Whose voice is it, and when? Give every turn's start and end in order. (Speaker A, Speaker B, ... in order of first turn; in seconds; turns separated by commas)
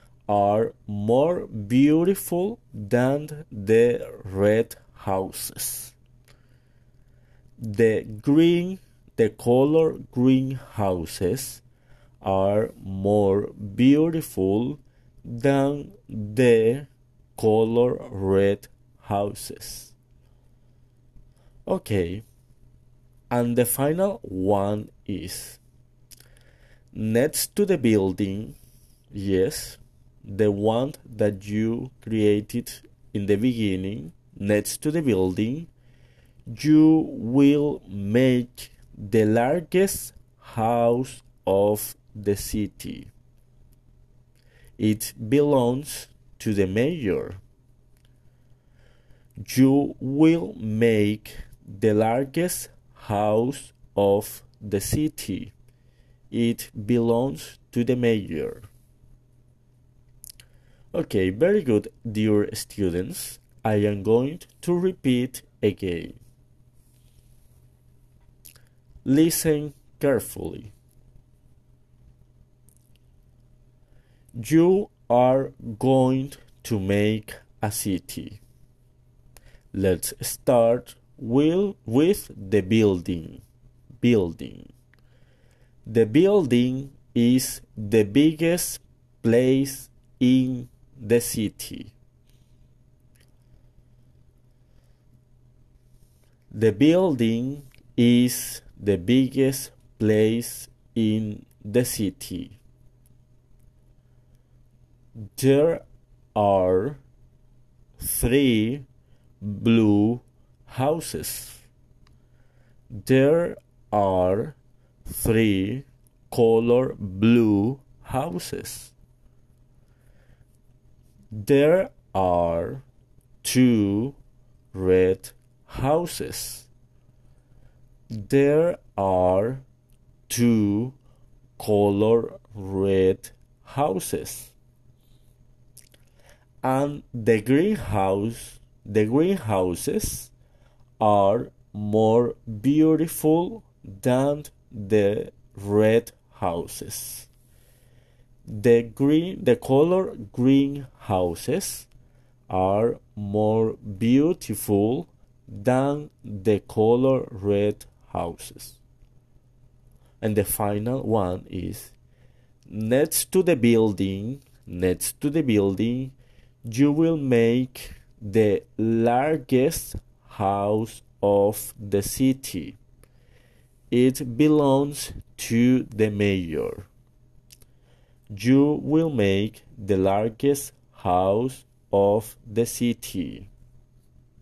Speaker A: 0.3-5.9, Speaker A: 7.6-11.6, Speaker A: 12.2-19.9, Speaker A: 21.7-22.2, Speaker A: 23.3-25.6, Speaker A: 26.9-28.6, Speaker A: 29.1-35.7, Speaker A: 36.5-43.1, Speaker A: 44.8-47.4, Speaker A: 49.4-55.5, Speaker A: 56.3-58.7, Speaker A: 60.9-66.2, Speaker A: 69.0-70.7, Speaker A: 74.3-78.4, Speaker A: 79.7-83.4, Speaker A: 84.0-84.7, Speaker A: 85.8-91.9, Speaker A: 96.5-102.6, Speaker A: 105.3-105.8, Speaker A: 106.3-107.0, Speaker A: 108.0-108.9, Speaker A: 109.4-111.7, Speaker A: 112.9-118.9, Speaker A: 121.3-122.8, Speaker A: 123.4-124.2, Speaker A: 124.7-126.7, Speaker A: 128.1-129.6, Speaker A: 130.3-131.0, Speaker A: 131.6-134.5, Speaker A: 136.6-140.3, Speaker A: 141.0-147.3, Speaker A: 148.5-151.9, Speaker A: 152.5-158.8, Speaker A: 160.2-161.9, Speaker A: 162.7-172.8, Speaker A: 173.9-176.9, Speaker A: 178.3-183.5